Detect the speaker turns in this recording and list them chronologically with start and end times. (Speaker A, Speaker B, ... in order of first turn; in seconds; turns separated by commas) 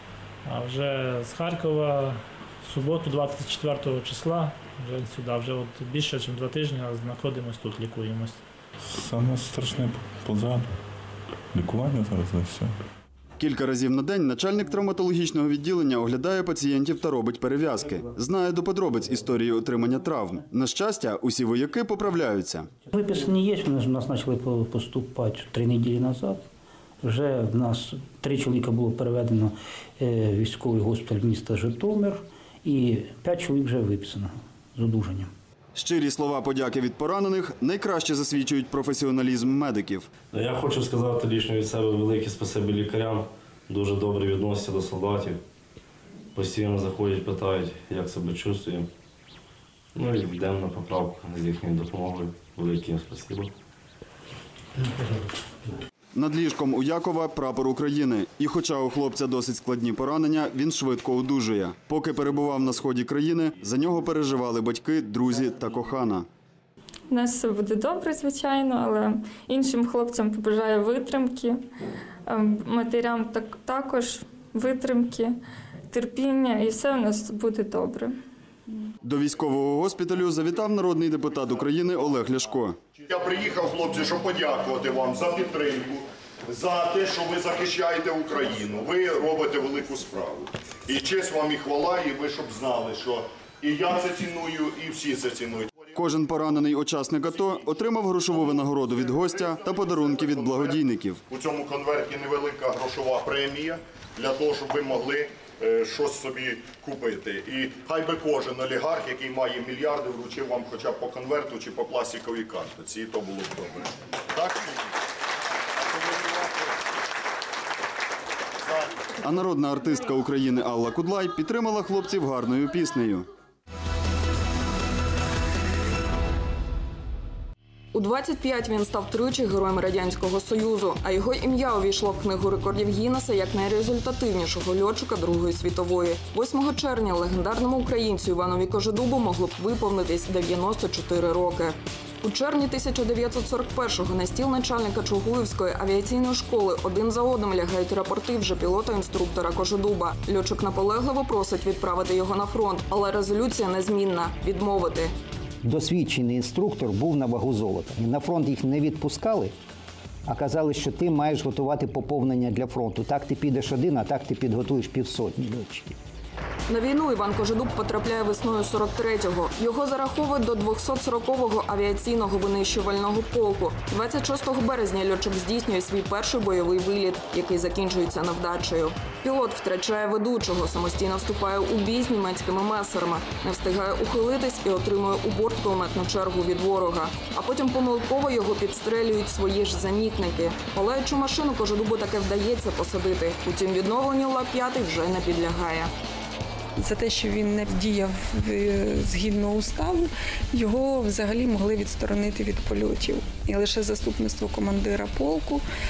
Speaker A: 0.5-8.4, Speaker B: 8.9-10.8, Speaker B: 11.5-12.8, Speaker C: 13.4-22.7, Speaker D: 22.9-26.4, Speaker D: 27.0-35.3, Speaker C: 35.7-40.1, Speaker E: 40.3-45.4, Speaker E: 46.3-48.9, Speaker E: 49.9-53.5, Speaker C: 56.1-66.3, Speaker F: 67.1-71.6, Speaker F: 72.3-75.3, Speaker F: 75.9-78.1, Speaker C: 79.0-82.8, Speaker G: 81.6-82.4, Speaker G: 83.0-95.9, Speaker C: 95.9-101.2, Speaker G: 98.3-114.8, Speaker G: 116.1-116.4, Speaker G: 118.6-118.9, Speaker C: 119.2-123.2, Speaker H: 127.9-155.1, Speaker I: 155.6-159.5, Speaker I: 160.3-165.9, Speaker H: 166.7-195.9, Speaker J: 196.8-205.6